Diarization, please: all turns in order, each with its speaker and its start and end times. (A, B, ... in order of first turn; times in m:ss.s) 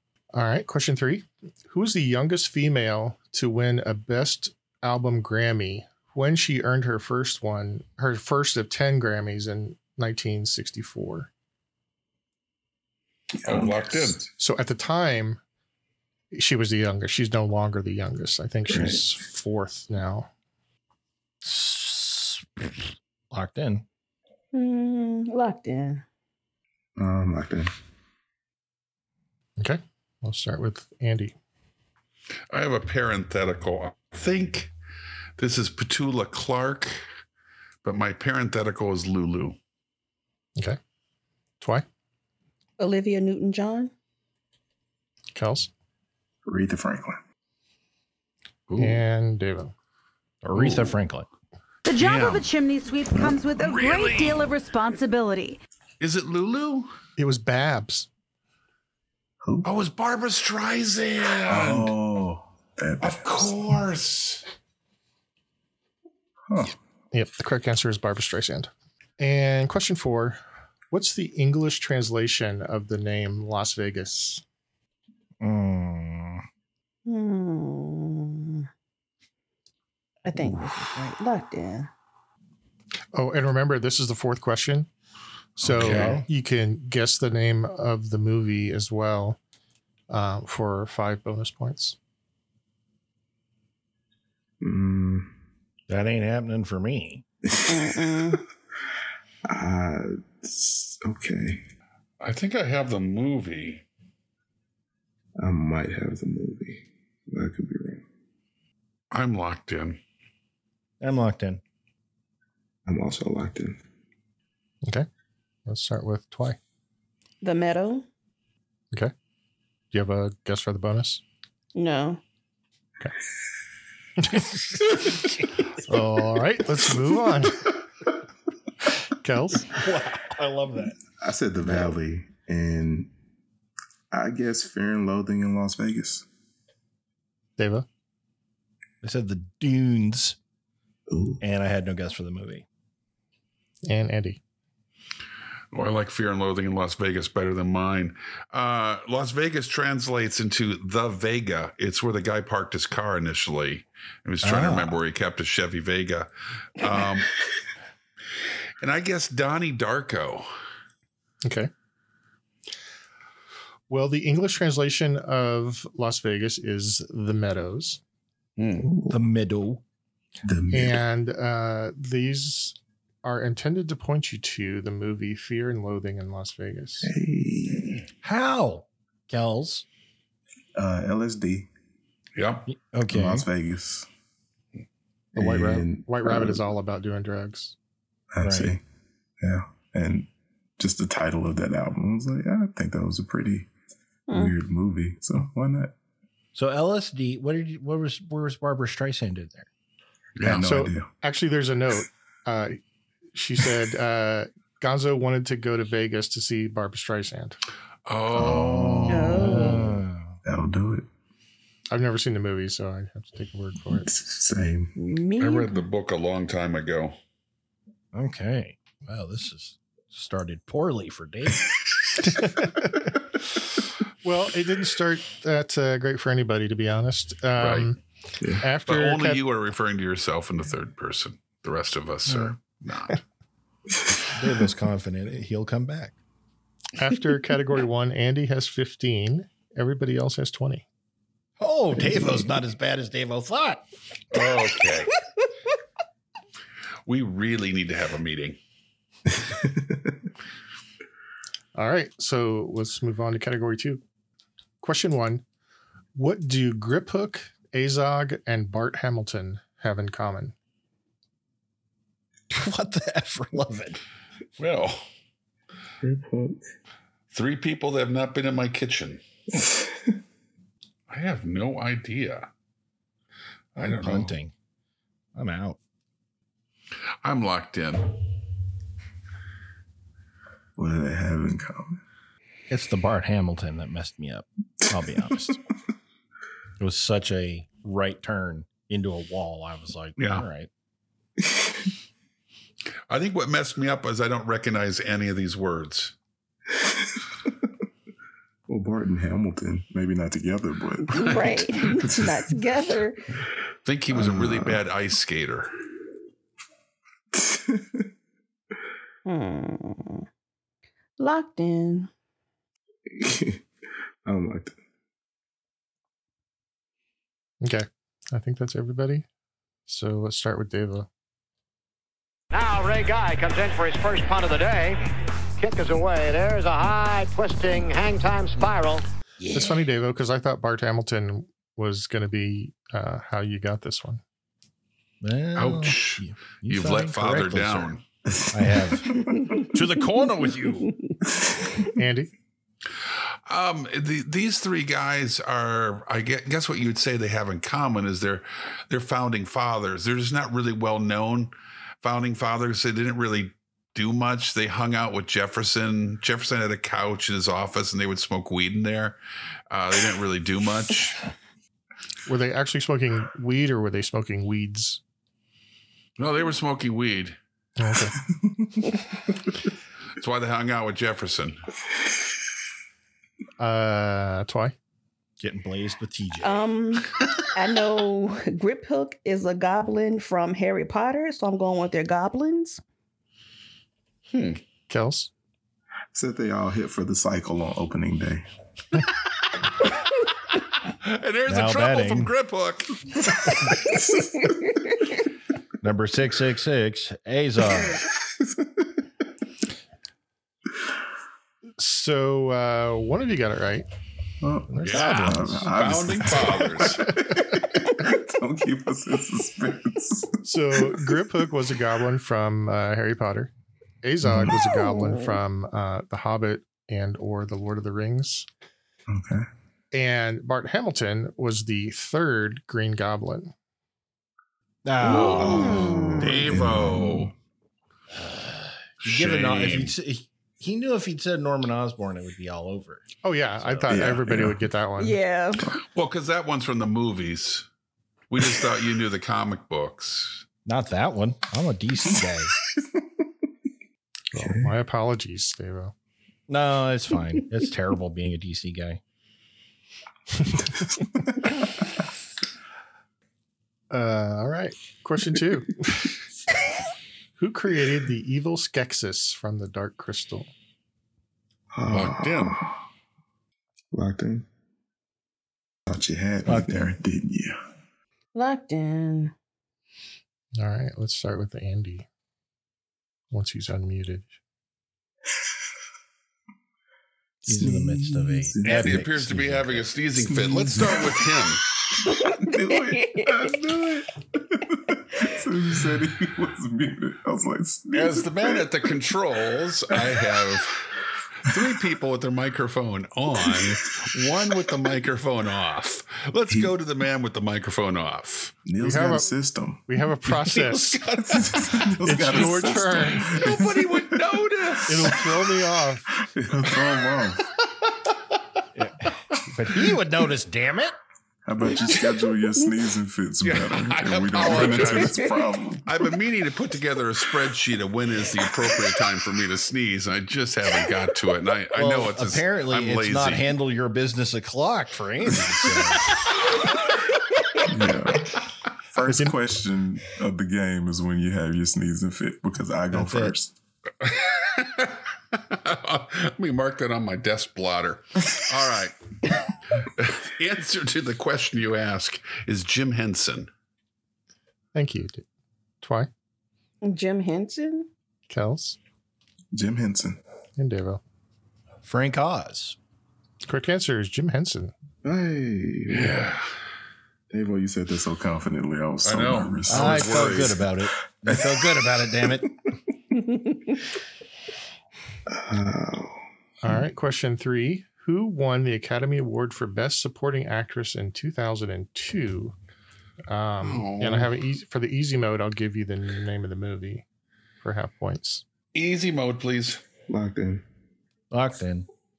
0:00.3-0:11.3 A
0:13.4-0:14.2 B
0:13.4-0:14.3 C
0:14.4-0:15.4 A
0:16.3-0:20.3 A
0:18.7-0:19.0 B
0:21.4-0:22.7 D
0:23.3-0:23.8 D
0:24.5-0:26.0 E
0:27.0-0:27.7 B
0:29.6-0:31.3 A
0:32.5-0:34.7 C
0:35.4-0:37.0 C
0:37.8-0:39.6 C
0:41.6-0:41.8 A
0:42.8-0:43.9 E
0:45.3-0:45.7 A
0:46.4-0:47.2 B
0:48.7-0:49.0 C
0:48.8-0:49.7 A
0:50.4-0:51.3 D
0:50.5-0:50.9 C
0:51.8-0:55.6 F
0:51.9-0:52.5 C
0:53.6-0:54.5 C
0:56.0-0:56.9 C
0:57.2-0:58.1 A
0:59.4-0:59.7 B
0:59.6-1:01.9 C
1:01.5-1:03.6 B
1:03.0-1:04.4 C
1:06.5-1:06.7 B
1:07.1-1:10.4 A
1:10.9-1:14.4 A
1:15.4-1:16.4 D
1:17.0-1:18.7 E
1:20.2-1:21.9 E
1:23.1-1:24.9 A
1:25.6-1:29.4 A
1:25.6-1:26.3 D
1:25.8-1:26.2 C
1:30.1-1:32.0 A
1:34.6-1:35.3 B
1:35.9-1:37.2 D
1:37.6-1:37.9 B
1:37.6-1:38.4 E
1:39.5-1:41.6 B
1:42.2-1:43.8 C
1:45.4-1:48.0 B
1:49.1-1:50.0 C
1:51.0-1:51.6 D
1:52.8-1:53.8 B
1:55.6-1:56.6 A
1:57.4-1:58.0 E
1:59.9-2:01.2 A
2:01.7-2:02.2 E
2:04.3-2:05.3 D
2:05.8-2:07.8 A
2:09.2-2:09.7 A
2:09.7-2:11.0 D
2:11.2-2:13.1 B
2:11.6-2:11.9 D
2:14.1-2:16.3 B
2:17.6-2:17.8 A
2:19.0-2:20.4 D
2:21.1-2:21.4 B
2:21.4-2:22.6 D
2:23.8-2:24.4 A
2:25.7-2:37.4 C
2:34.4-2:34.9 D
2:38.8-2:40.5 C
2:41.4-2:41.7 A
2:43.9-2:48.0 A
2:48.6-2:48.9 C
2:48.8-2:49.2 B
2:49.1-2:49.8 D
2:50.4-2:51.0 B
2:50.7-2:57.1 A
2:57.0-2:58.0 B
2:58.2-2:59.8 D
3:00.7-3:01.7 B
3:02.4-3:02.7 C
3:02.7-3:03.4 D
3:03.1-3:04.1 B
3:05.3-3:06.6 B
3:05.3-3:07.8 A
3:08.3-3:08.8 B
3:08.4-3:08.8 D
3:09.4-3:13.7 B
3:14.3-3:14.5 E
3:14.3-3:15.9 B
3:16.5-3:19.7 D
3:20.4-3:20.6 C
3:20.4-3:21.1 B
3:20.6-3:22.8 A
3:23.3-3:27.6 A
3:28.0-3:29.6 C
3:28.3-3:30.4 D
3:29.1-3:29.9 E
3:30.4-3:31.1 B
3:31.9-3:34.1 A
3:33.9-3:34.9 B
3:35.0-3:35.8 E
3:35.4-3:37.1 C
3:38.1-3:41.7 D
3:42.2-3:43.1 A
3:44.2-3:48.0 A
3:47.6-3:47.9 C
3:48.4-3:48.6 B
3:48.6-3:49.4 A
3:48.9-3:53.2 C
3:52.3-3:52.5 D
3:54.3-3:56.2 D
3:57.0-4:00.8 A
4:01.6-4:03.8 D
4:04.3-4:05.1 C
4:07.0-4:08.6 C
4:09.4-4:10.1 B
4:11.8-4:14.0 A
4:14.8-4:15.4 A
4:16.2-4:20.5 A
4:22.5-4:24.0 D
4:24.6-4:25.0 C
4:26.0-4:26.6 B
4:27.3-4:29.2 C
4:29.5-4:29.9 B
4:31.1-4:32.5 C
4:33.8-4:34.3 C
4:33.8-4:34.5 D
4:35.3-4:35.8 D
4:37.2-4:38.1 C
4:40.8-4:42.0 B
4:42.7-4:45.6 D
4:46.8-4:50.7 D
4:50.2-4:50.4 C
4:53.1-4:56.1 C
4:58.7-5:02.4 B
5:01.1-5:03.2 E
5:03.8-5:05.7 C
5:04.1-5:04.8 B
5:07.3-5:08.0 B
5:09.2-5:10.2 E
5:11.2-5:12.1 E
5:13.1-5:13.6 B
5:14.2-5:14.7 B
5:17.6-5:19.2 A
5:19.9-5:21.1 A
5:22.5-5:25.0 G
5:25.6-5:29.0 G
5:29.4-5:29.7 D
5:29.5-5:34.2 A
5:35.2-5:37.9 D
5:35.6-5:38.0 C
5:38.2-5:39.4 B
5:38.5-5:40.9 D
5:42.0-5:42.3 A
5:43.5-5:59.2 C
5:59.7-6:01.2 C
6:02.2-6:05.0 A
6:06.2-6:07.4 C
6:07.8-6:08.1 A
6:08.3-6:09.0 B
6:10.2-6:11.6 C
6:13.6-6:14.8 A
6:15.4-6:16.6 D
6:16.4-6:22.8 E
6:24.3-6:24.6 C
6:24.9-6:25.3 A
6:26.1-6:28.5 B
6:31.0-6:33.0 C
6:31.5-6:32.3 D
6:33.8-6:34.5 B
6:35.8-6:38.0 D
6:38.2-6:38.8 B
6:41.8-6:43.8 A
6:44.4-6:51.1 B
6:44.7-6:45.6 A
6:44.8-6:47.0 C
6:44.9-6:45.7 D
6:50.4-6:53.5 A
6:54.0-6:58.5 A
6:54.2-6:54.6 B
6:59.1-6:59.5 B
6:59.9-7:03.5 A
7:04.8-7:06.4 D
7:05.0-7:06.4 E
7:05.4-7:07.3 B
7:06.2-7:07.3 C
7:08.2-7:13.1 D
7:09.0-7:09.9 C
7:13.2-7:15.2 A
7:13.6-7:13.9 D
7:13.9-7:14.6 B
7:15.0-7:15.7 E
7:15.9-7:17.7 C
7:18.3-7:20.4 C
7:20.6-7:22.5 D
7:22.6-7:23.0 B
7:24.3-7:25.9 A
7:24.3-7:24.7 B
7:26.5-7:29.0 D
7:33.9-7:36.1 A
7:37.4-7:40.5 A
7:41.7-7:42.7 B
7:41.9-7:42.6 C
7:43.9-7:44.5 B
7:45.9-7:47.6 B
7:46.4-7:46.9 D
7:48.3-7:49.3 E
7:50.6-7:52.0 A
7:53.3-7:54.4 A
7:57.4-7:59.9 D
7:57.5-7:59.0 B
7:58.6-8:01.6 C
8:00.2-8:01.2 B
8:02.0-8:08.7 B
8:02.9-8:03.3 E
8:07.9-8:10.9 C
8:11.4-8:18.6 C
8:16.5-8:16.7 B
8:18.6-8:19.8 B
8:18.8-8:19.3 A
8:19.9-8:21.0 A
8:20.3-8:22.7 C
8:21.2-8:24.2 B
8:22.0-8:23.3 A
8:23.2-8:25.2 C
8:24.9-8:26.1 A
8:24.9-8:25.2 B
8:26.2-8:27.5 B
8:28.7-8:31.0 D
8:31.4-8:35.9 B
8:33.4-8:35.3 C
8:35.0-8:35.3 E
8:35.8-8:43.5 C
8:41.8-8:46.1 D
8:45.5-8:46.2 C
8:47.6-8:53.6 B
8:49.0-8:49.4 A
8:52.9-8:53.3 D
8:54.0-8:59.0 C
8:59.8-9:03.5 C
9:04.7-9:05.2 A
9:05.8-9:06.1 A
9:06.8-9:07.9 E
9:08.3-9:08.8 A
9:09.5-9:10.2 B
9:10.6-9:11.0 A
9:11.8-9:12.8 D
9:13.4-9:14.7 A
9:15.0-9:16.2 B
9:15.9-9:16.5 C
9:17.3-9:20.6 B
9:19.0-9:20.6 C
9:19.7-9:22.5 D
9:21.2-9:22.3 B
9:23.2-9:23.7 E
9:25.3-9:26.8 B
9:26.6-9:32.5 A
9:33.3-9:37.0 A
9:33.6-9:34.3 C
9:37.6-9:38.4 A
9:38.7-9:39.8 C
9:40.1-9:40.6 B
9:41.3-9:41.9 D